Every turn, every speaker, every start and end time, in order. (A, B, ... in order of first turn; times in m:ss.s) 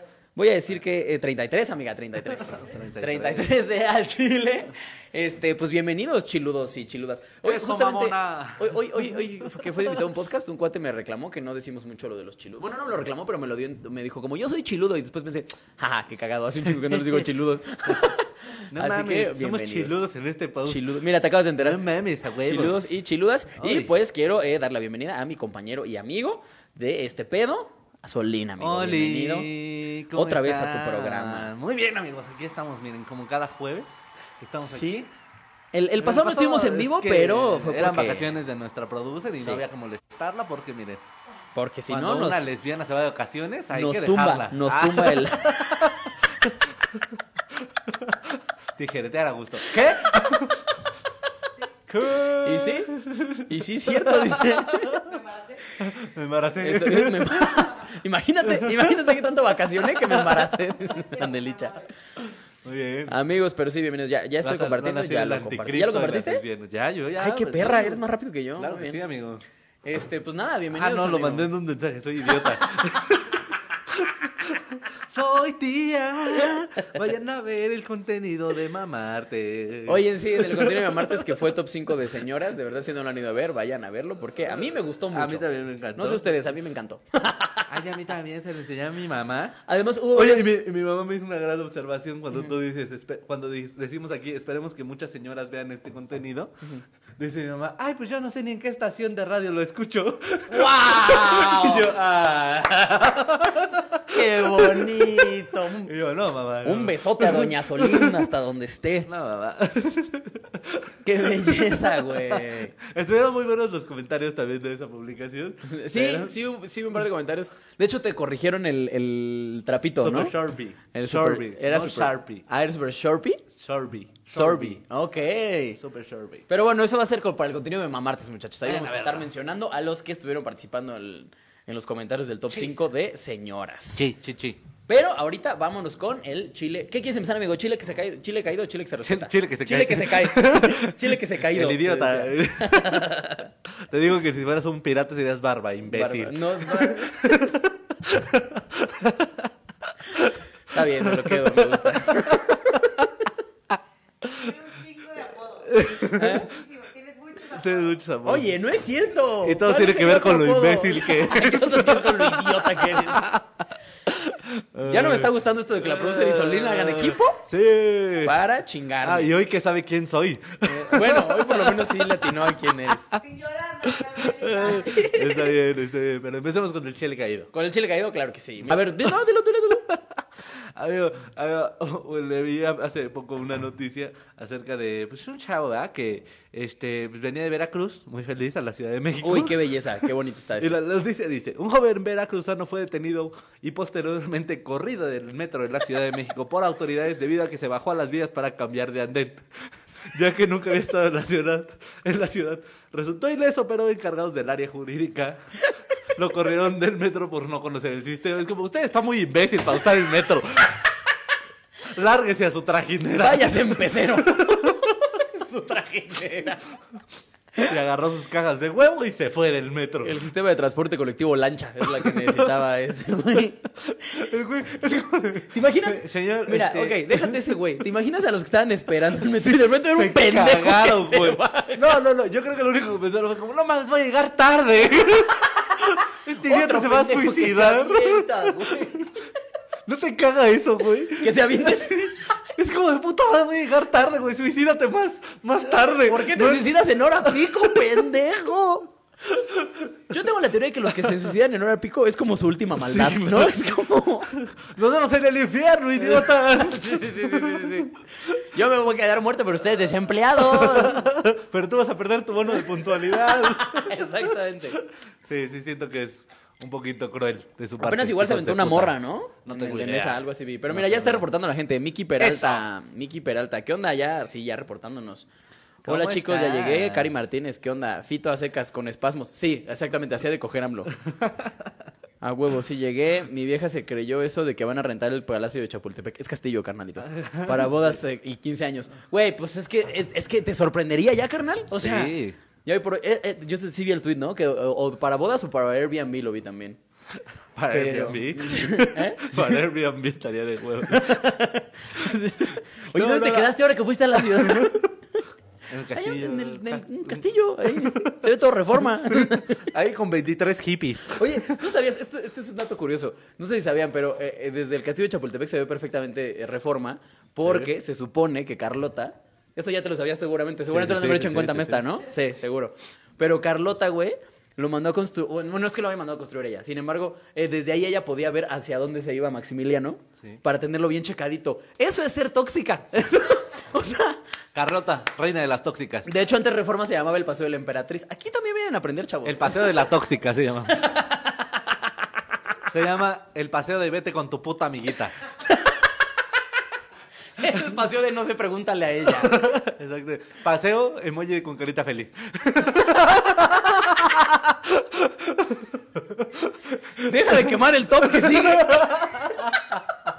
0:00.3-0:20.1 A
0:02.5-0:03.5 B
0:07.4-0:09.9 B
0:16.8-0:17.2 B
0:18.7-0:20.9 B
0:20.6-0:21.8 A
0:21.6-0:22.8 B
0:22.4-0:29.5 A
0:23.6-0:23.9 B
0:28.6-0:35.1 B
0:30.1-0:31.5 A
0:34.6-0:35.1 A
0:35.7-0:38.3 A
0:36.0-0:41.0 B
0:39.3-0:39.6 A
0:41.5-0:42.5 A
0:41.9-0:50.8 B
0:43.7-0:45.7 A
0:51.9-0:55.2 B
0:52.3-0:52.9 A
0:53.4-0:55.0 A
0:54.9-0:55.6 C
0:55.8-0:57.5 B
0:56.6-1:01.9 A
0:58.4-0:59.1 B
1:00.0-1:00.4 B
1:00.8-1:01.8 C
1:02.2-1:03.2 B
1:03.1-1:06.4 A
1:04.4-1:08.0 B
1:07.2-1:09.0 A
1:08.6-1:09.4 B
1:09.8-1:11.5 A
1:10.8-1:21.4 B
1:19.8-1:27.7 A
1:24.5-1:26.4 B
1:27.7-1:29.6 B
1:29.6-1:30.5 A
1:30.1-1:36.6 B
1:37.2-1:48.3 B
1:40.5-1:41.9 A
1:44.1-1:45.9 A
1:46.6-1:49.1 A
1:49.0-1:56.3 B
1:51.0-1:52.7 A
1:55.6-2:00.4 A
2:00.0-2:02.4 B
2:00.9-2:03.4 A
2:03.5-2:04.8 B
2:04.3-2:05.8 A
2:05.8-2:06.4 B
2:06.5-2:14.1 A
2:08.6-2:09.3 B
2:12.5-2:12.7 B
2:13.9-2:14.6 B
2:14.9-2:23.5 A
2:19.0-2:23.2 B
2:23.7-2:33.1 B
2:25.8-2:27.5 A
2:30.7-2:33.1 A
2:33.7-2:34.5 B
2:34.2-2:38.0 C
2:35.6-2:36.5 B
2:36.1-2:36.5 A
2:37.5-2:38.5 B
2:38.2-2:43.3 A
2:39.4-2:48.4 B
2:44.8-2:47.4 A
2:48.2-2:49.3 A
2:49.0-2:53.2 B
2:50.7-2:53.2 A
2:53.2-2:55.1 C
2:53.8-2:57.5 B
2:54.6-2:55.5 A
2:57.5-2:59.9 A
2:58.6-2:59.1 B
2:59.8-3:25.4 B
3:09.2-3:10.8 A
3:26.1-3:30.8 B
3:31.8-3:34.9 B
3:33.2-3:36.7 A
3:37.6-3:40.2 B
3:40.0-3:44.2 A
3:42.0-3:42.5 B
3:43.8-3:47.5 B
3:45.5-3:51.9 A
3:49.2-3:59.2 B
3:55.7-3:59.2 A
3:59.8-4:07.9 B
4:01.2-4:02.3 A
4:05.8-4:08.9 A
4:09.2-4:09.9 B
4:10.1-4:14.3 A
4:12.8-4:13.7 B
4:14.3-4:17.9 B
4:16.0-4:21.1 A
4:20.4-4:24.3 B
4:22.6-4:24.8 A
4:25.2-4:31.3 B
4:27.8-4:35.3 A
4:32.2-4:32.6 B
4:35.8-4:40.9 A
4:35.8-4:37.1 B
4:42.2-4:56.8 A
4:47.2-4:48.0 B
4:51.7-4:52.4 B
4:57.6-5:01.2 B
4:57.7-4:59.6 A
5:00.8-5:05.2 A
5:02.0-5:03.5 B
5:04.2-5:04.8 B
5:05.7-5:08.3 B
5:05.9-5:09.6 A
5:08.8-5:11.6 B
5:11.1-5:34.2 A
5:17.4-5:17.7 B
5:20.7-5:21.9 B
5:34.5-5:36.1 B
5:36.0-5:39.9 A
5:39.2-5:40.8 B
5:40.7-5:41.8 A
5:42.6-5:45.2 B
5:47.4-5:49.6 A
5:49.2-6:00.0 B
5:57.0-5:59.3 A